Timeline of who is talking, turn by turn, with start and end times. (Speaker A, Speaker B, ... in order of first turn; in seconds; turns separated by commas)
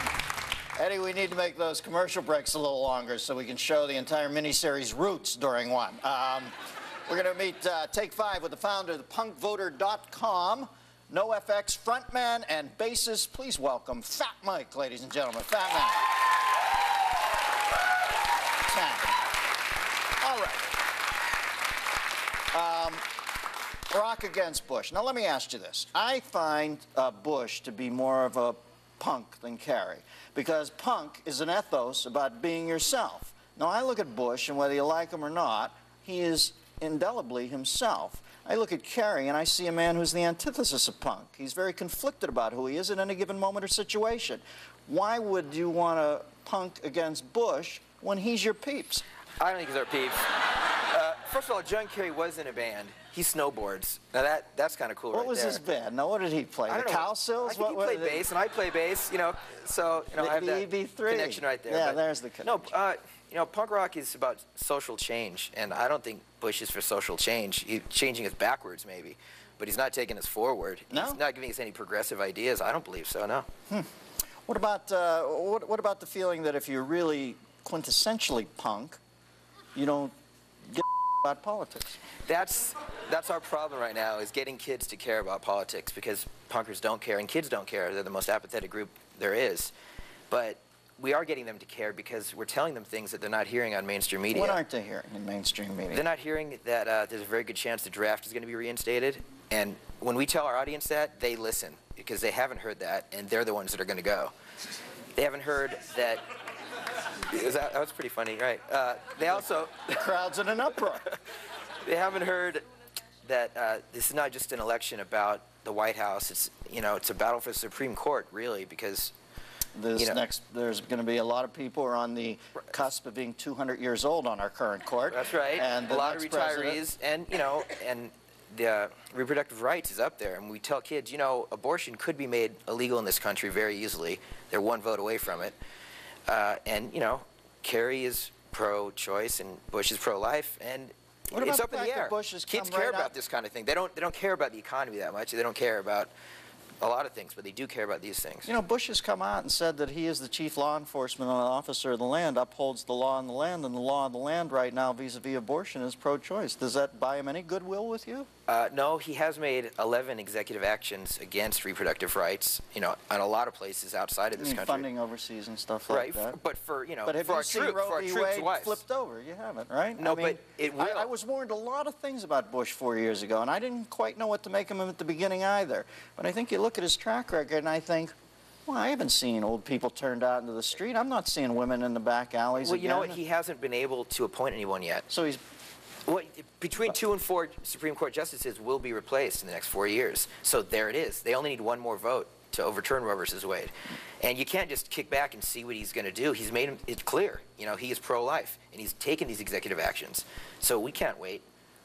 Speaker A: 0.8-6.5, Speaker A: 7.1-16.1, Speaker A: 18.6-19.2, Speaker A: 20.2-20.7, Speaker A: 22.5-23.0, Speaker A: 23.9-49.0, Speaker B: 49.4-55.6, Speaker A: 55.1-58.3, Speaker B: 56.7-73.5, Speaker A: 60.1-62.7, Speaker A: 70.9-71.2, Speaker A: 74.5-79.0, Speaker A: 79.7-80.1, Speaker A: 80.7-82.0, Speaker B: 82.2-89.7, Speaker B: 90.3-94.6, Speaker A: 94.3-96.0, Speaker B: 95.9-104.3, Speaker B: 105.2-106.2, Speaker B: 107.3-110.1, Speaker A: 110.0-111.0, Speaker B: 111.8-112.6, Speaker B: 113.2-119.1, Speaker A: 119.7-126.8, Speaker B: 120.0-120.2, Speaker B: 125.1-135.5, Speaker B: 136.3-146.1, Speaker A: 141.3-143.1, Speaker B: 146.8-148.5, Speaker A: 148.4-158.3, Speaker B: 158.5-164.8, Speaker A: 164.3-166.4, Speaker B: 165.9-168.8, Speaker A: 167.0-178.1, Speaker B: 170.0-171.1, Speaker A: 178.7-183.2, Speaker B: 182.6-185.1, Speaker A: 185.1-185.4, Speaker B: 186.1-201.4